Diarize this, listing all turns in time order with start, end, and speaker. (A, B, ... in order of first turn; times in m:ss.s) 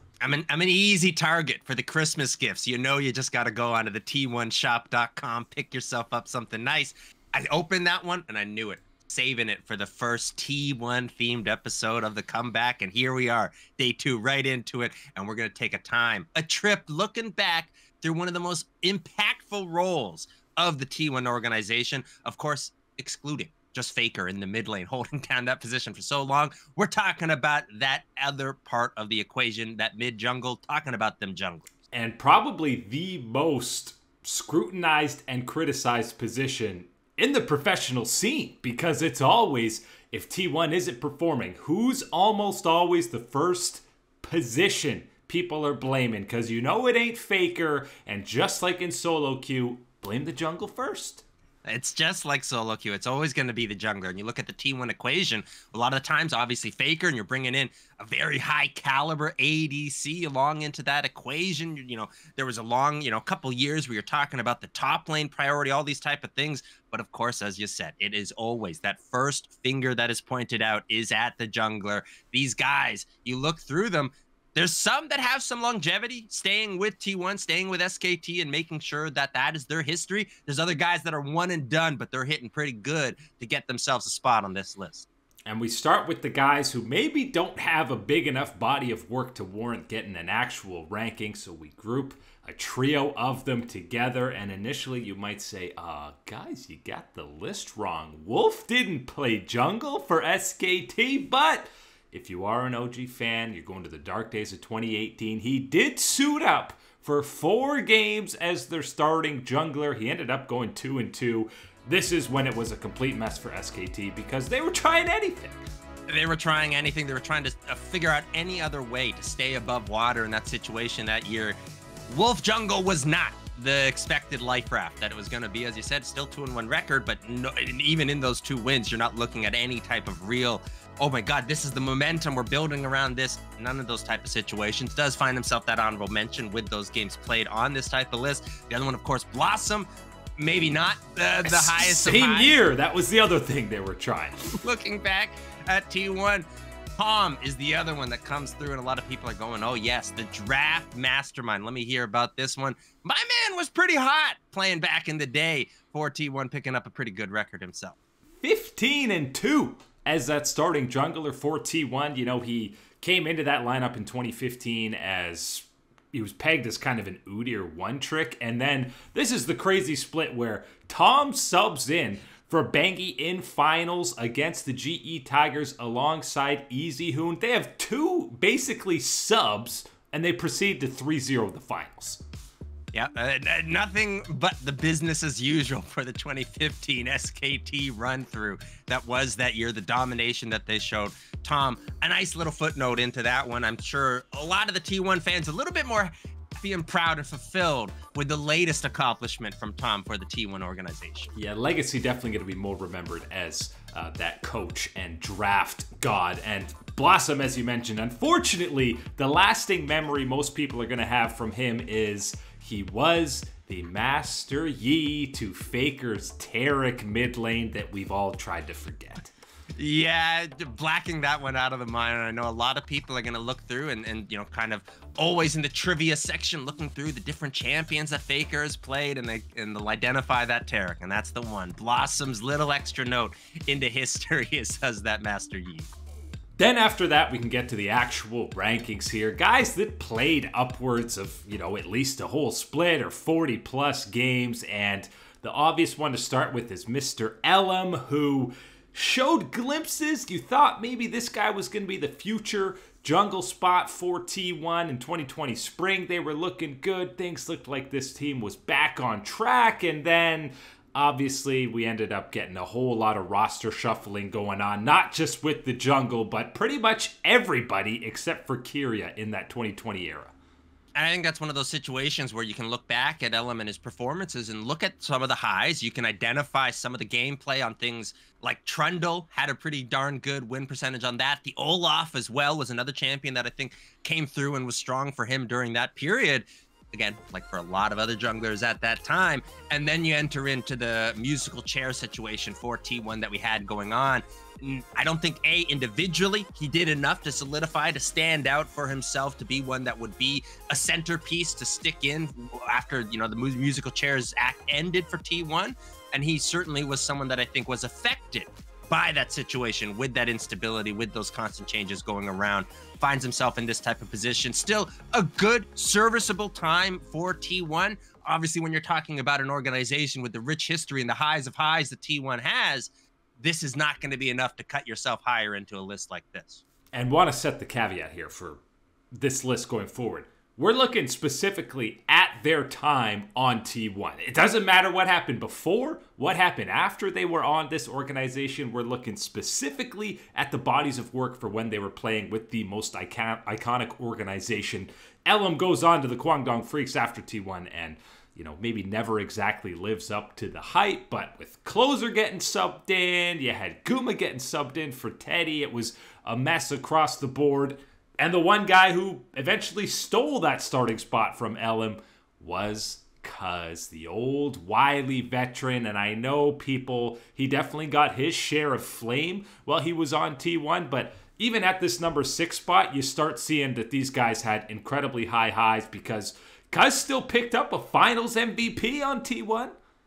0:00.2-0:31.7 A
0:31.9-0:51.2 B
0:51.6-1:25.1 A
1:25.5-1:55.7 B
1:56.1-2:01.6 A
2:02.1-2:19.8 A
2:20.4-2:22.6 A
2:21.5-2:24.6 B
2:24.6-2:26.4 A
2:27.0-2:38.0 A
2:38.4-3:02.2 B
3:02.9-3:21.3 A
3:21.3-3:39.3 B
3:39.8-3:55.9 A
3:56.6-4:30.3 B
4:31.0-5:26.6 A
5:26.9-5:28.6 B
5:29.1-6:19.8 B